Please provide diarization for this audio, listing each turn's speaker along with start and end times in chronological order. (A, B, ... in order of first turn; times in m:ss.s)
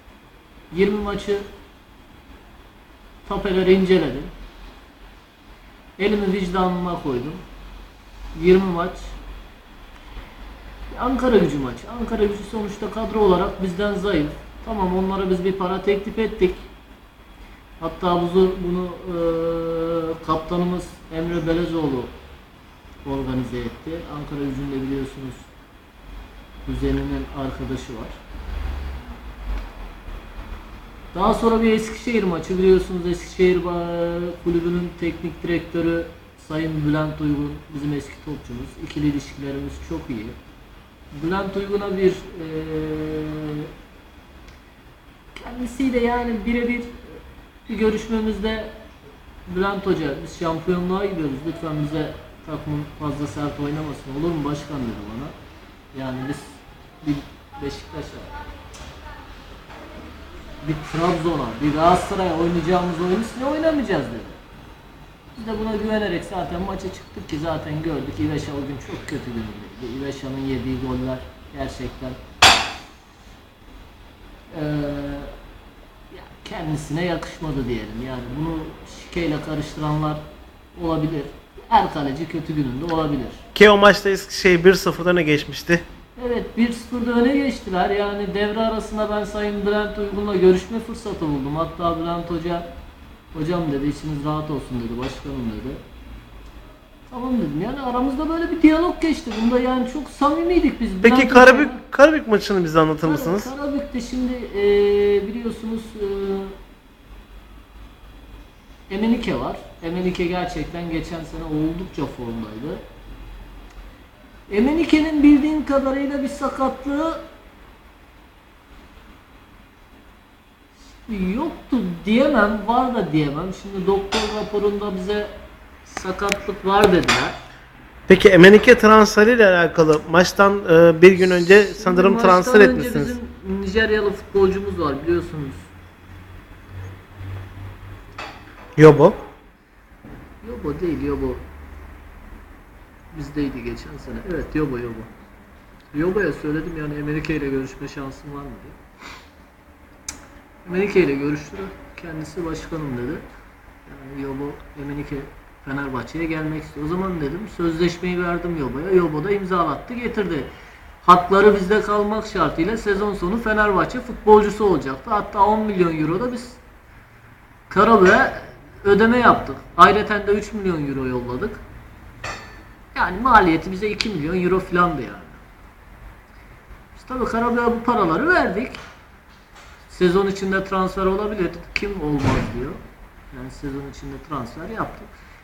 0:00.7-0:01.4 A
0:03.2-0:04.3 A
0:06.0-0:07.4 A
0:08.3-0:09.1 A
0:10.9-0:16.7 A
0:17.8-0:22.1 A
0:23.0-0:25.4 A
0:26.6-0:28.1 A
0:31.1-0:40.4 A
0:41.1-0:43.7 A
0:45.3-0:47.2 A
0:47.7-0:48.8 A
0:49.5-0:55.3 A
0:55.9-0:58.3 A
1:00.6-1:04.4 A
1:05.4-1:12.2 A
1:14.5-1:15.3 A
1:16.1-1:20.2 A
1:20.7-1:23.4 A
1:23.5-1:25.8 B
1:26.2-1:32.7 A
1:33.3-1:35.8 A
1:37.1-1:41.8 A
1:41.0-1:43.5 B
1:43.0-1:46.5 A
1:48.9-1:52.8 A
1:54.5-1:57.2 A
2:01.0-2:05.3 A
2:05.8-2:07.4 A
2:08.1-2:13.1 B
2:11.2-2:15.7 A
2:18.8-2:19.2 B
2:20.4-2:21.4 A
2:23.1-2:25.1 A
2:25.9-2:28.8 A
2:30.6-2:33.2 A
2:33.8-2:40.5 A
2:41.0-2:46.6 A
2:47.7-2:51.6 A
2:52.9-2:55.4 A
2:56.9-2:58.8 A
2:59.9-3:02.8 A
3:03.3-3:05.1 A